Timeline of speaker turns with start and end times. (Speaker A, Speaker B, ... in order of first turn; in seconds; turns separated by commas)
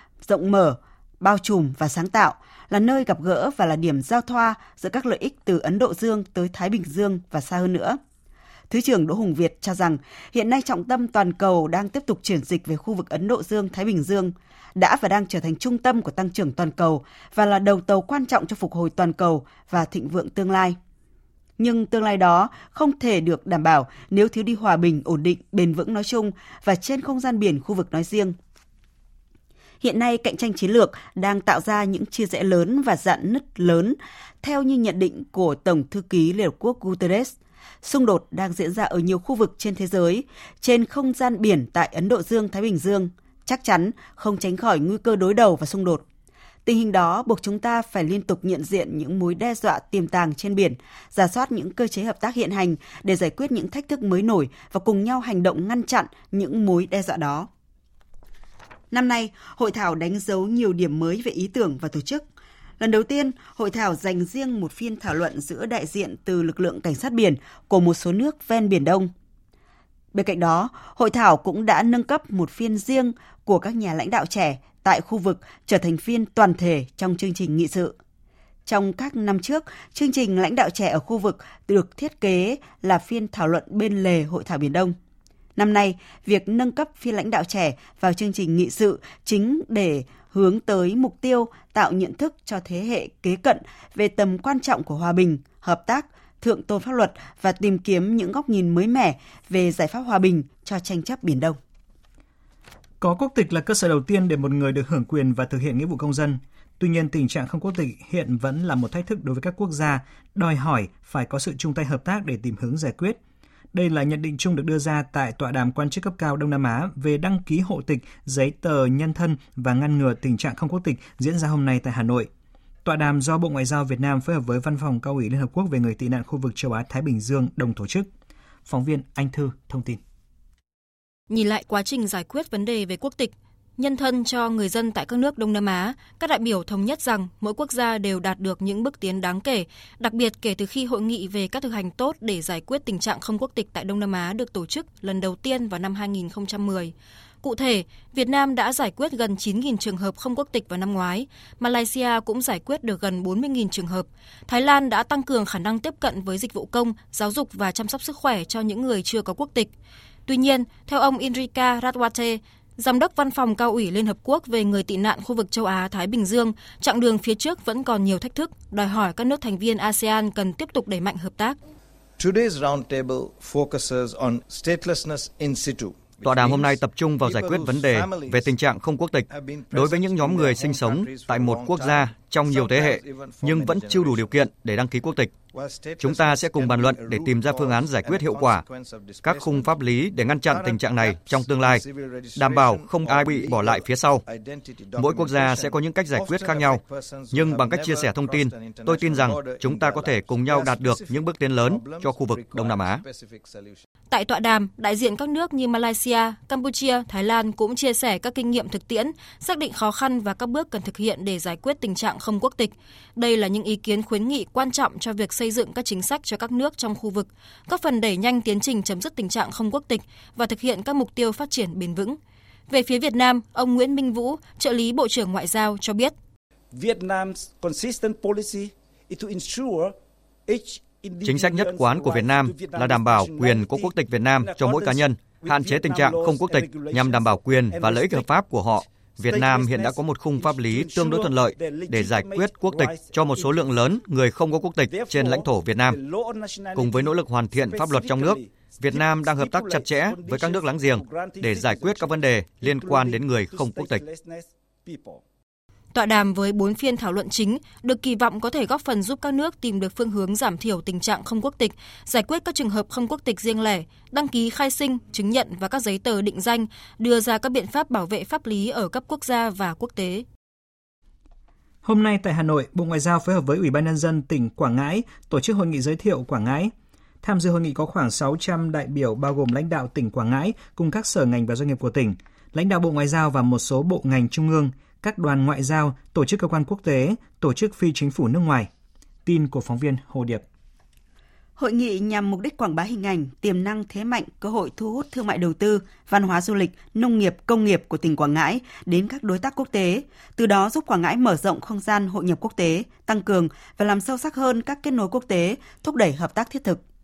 Speaker A: 0.2-8.0, Speaker A: 8.7-20.8, Speaker A: 21.6-28.4, Speaker A: 29.8-46.0, Speaker A: 46.6-57.5, Speaker A: 58.9-62.2, Speaker A: 62.8-69.1, Speaker A: 70.1-77.9, Speaker A: 78.7-85.0, Speaker A: 85.5-101.6, Speaker B: 103.0-113.2, Speaker B: 113.7-122.3, Speaker B: 122.8-128.1, Speaker B: 128.7-130.0, Speaker C: 131.3-159.7, Speaker C: 160.3-171.6, Speaker D: 172.2-178.5, Speaker E: 176.2-185.3, Speaker D: 179.3-184.4, Speaker D: 185.5-203.8, Speaker E: 186.0-188.7, Speaker E: 189.2-191.8, Speaker E: 192.3-194.2, Speaker E: 194.9-203.0, Speaker C: 204.1-226.1, Speaker F: 226.7-229.9, Speaker F: 230.5-238.4, Speaker E: 231.2-246.0, Speaker F: 239.2-243.7, Speaker F: 244.9-255.2, Speaker E: 246.7-254.0, Speaker C: 255.9-270.2, Speaker B: 271.8-288.7, Speaker B: 289.2-290.4, Speaker A: 291.6-306.8